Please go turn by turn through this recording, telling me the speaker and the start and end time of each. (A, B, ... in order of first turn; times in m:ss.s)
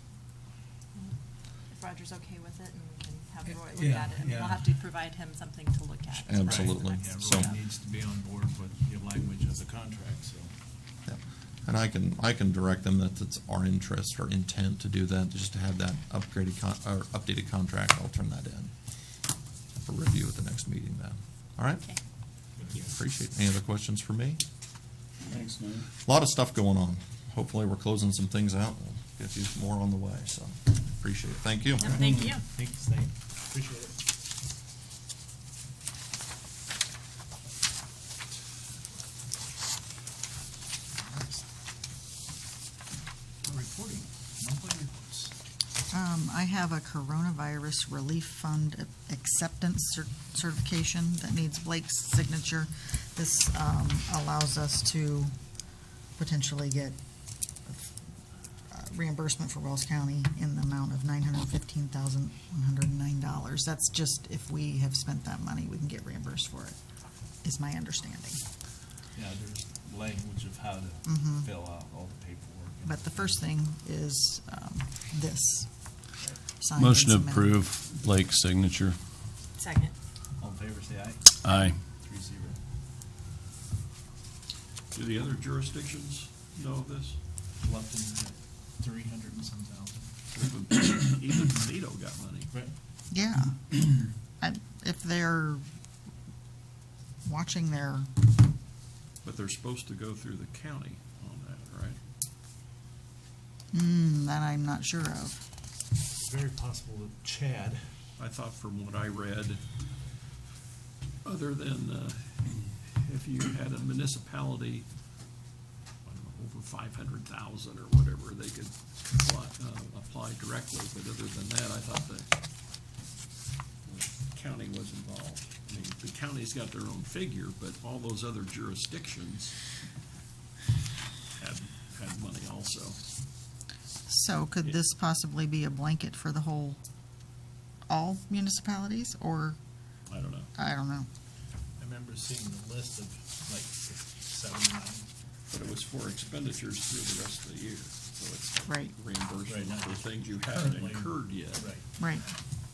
0:01.7-0:07.6 A
0:03.5-0:04.7 B
0:06.1-0:07.5 C
0:06.4-0:10.5 B
0:11.1-0:18.7 C
0:19.8-0:21.8 C
0:22.6-0:22.8 B
0:22.7-0:24.4 C
0:25.3-0:25.8 D
0:26.0-0:32.0 C
0:31.8-0:32.4 A
0:31.9-0:34.0 B
0:41.0-0:41.4 B
0:43.4-0:45.3 B
0:45.9-0:55.3 E
0:56.2-0:57.0 E
0:58.7-1:06.8 E
1:07.4-1:08.4 E
1:09.1-1:13.4 B
1:11.0-1:11.5 E
1:12.8-1:15.7 E
1:16.6-1:17.6 E
1:16.8-1:19.0 D
1:19.6-1:19.9 A
1:20.4-1:22.6 B
1:21.4-1:21.8 D
1:24.9-1:27.2 F
1:27.6-1:30.1 B
1:30.3-1:32.5 F
1:33.1-1:33.8 E
1:34.4-1:35.6 E
1:37.2-1:38.1 E
1:39.2-1:42.0 F
1:43.7-1:45.4 E
1:46.2-1:47.8 B
1:48.2-1:49.6 F
1:51.2-1:54.9 F
1:56.0-2:02.3 F
2:03.8-2:09.6 F
2:11.4-2:13.0 F
2:14.1-2:16.8 E
2:17.9-2:19.6 E
2:20.1-2:20.5 F
2:20.6-2:21.1 E
2:21.8-2:25.1 B
2:25.5-2:31.7 F
2:28.7-2:29.0 E
2:29.5-2:31.9 B
2:32.0-2:32.3 E